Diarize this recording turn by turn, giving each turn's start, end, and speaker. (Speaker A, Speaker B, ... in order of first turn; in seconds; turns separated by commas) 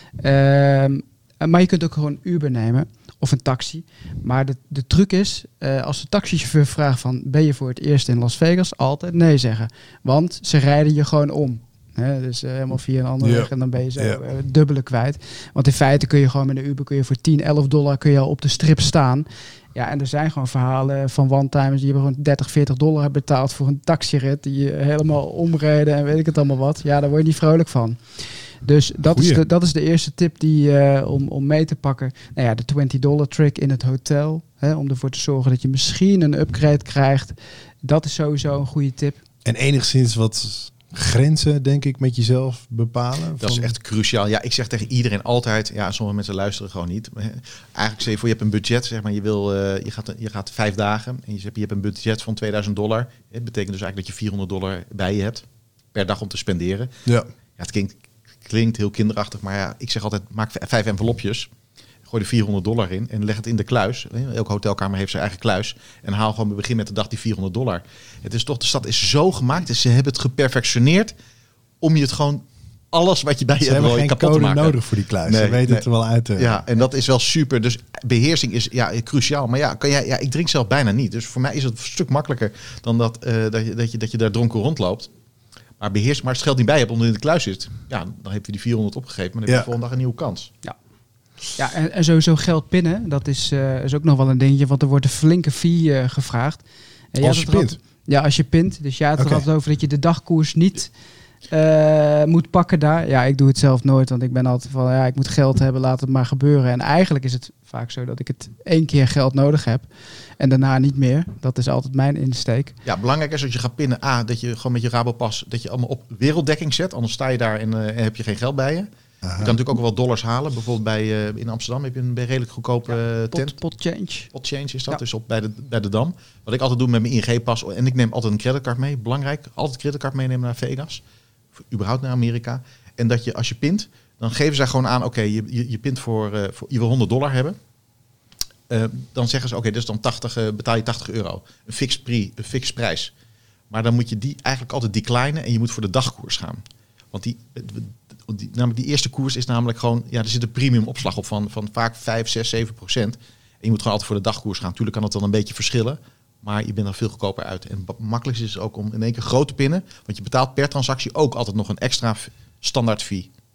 Speaker A: 0.2-39.2, Speaker B: 13.2-14.2, Speaker B: 29.1-29.4, Speaker B: 39.5-43.7, Speaker C: 43.4-56.9, Speaker C: 57.6-61.5, Speaker C: 62.1-71.1, Speaker C: 71.8-75.8, Speaker B: 73.7-76.6, Speaker C: 76.4-85.1, Speaker C: 85.8-90.5, Speaker A: 91.6-96.6, Speaker A: 97.1-100.9, Speaker B: 97.2-97.8, Speaker B: 99.2-99.4, Speaker A: 101.5-109.9, Speaker A: 110.4-112.8, Speaker C: 112.8-123.5, Speaker B: 119.2-119.6, Speaker A: 122.9-124.3, Speaker C: 124.3-131.0, Speaker C: 131.7-137.6, Speaker C: 138.7-143.1, Speaker C: 143.7-163.3